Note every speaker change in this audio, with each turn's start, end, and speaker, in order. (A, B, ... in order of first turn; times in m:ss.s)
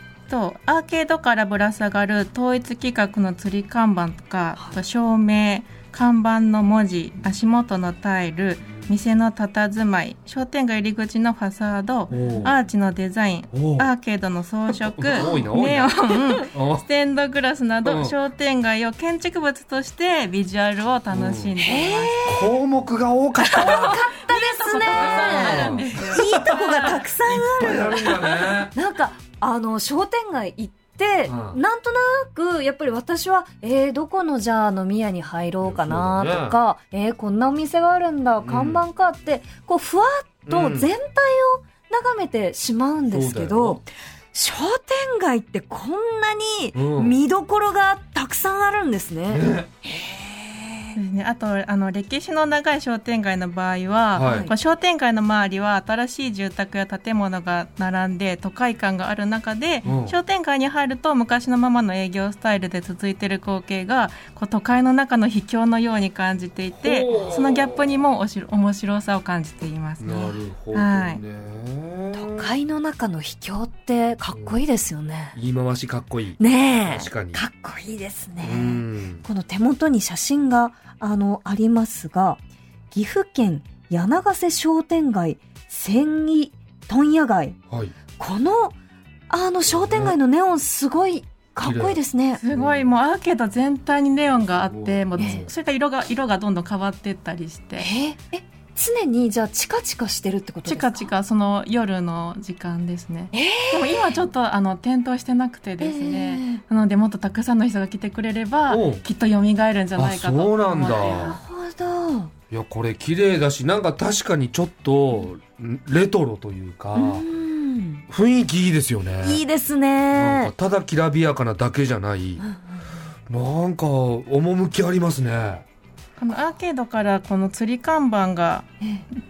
0:00.3-0:22.3 A
0:12.1-0:12.5 B
0:13.5-0:13.9 B
0:14.7-0:15.9 B
0:15.2-0:15.4 C
0:16.5-0:16.8 B
0:17.8-0:18.1 B
0:21.1-0:21.5 B
0:21.6-0:22.6 C
0:22.2-0:24.0 B
0:23.4-0:27.0 A
0:23.5-0:51.0 C
0:24.9-0:28.7 B
0:31.2-0:31.6 B
0:35.6-0:36.6 B
0:38.4-0:38.8 B
0:40.5-0:40.9 B
0:43.1-0:43.8 B
0:46.7-0:47.2 B
0:49.3-0:49.7 B
0:50.9-1:11.2 A
0:54.1-0:54.5 B
0:54.2-0:54.5 C
0:59.8-1:00.2 B
1:06.8-1:07.8 B
1:10.0-1:12.5 B
1:12.1-1:15.4 C
1:15.3-1:17.4 B
1:16.4-1:22.4 C
1:18.4-1:19.2 B
1:22.9-1:27.6 C
1:27.7-1:27.9 B
1:28.1-1:28.8 C
1:29.3-1:32.4 C
1:29.7-1:30.2 B
1:31.6-1:32.0 B
1:32.4-1:37.9 A
1:32.5-1:32.9 B
1:34.6-1:35.5 B
1:35.2-1:35.4 C
1:37.8-1:41.1 C
1:40.6-1:51.4 A
1:43.3-1:44.2 C
1:45.8-1:46.6 C
1:48.7-1:49.0 B
1:50.0-1:51.4 B
1:51.0-1:52.3 C
1:52.5-1:57.2 B
1:56.9-1:58.0 C
1:58.1-1:59.4 B
1:59.2-2:00.5 C
2:00.1-2:02.4 B
2:02.4-2:02.8 C
2:03.3-2:05.6 B
2:06.2-2:08.7 A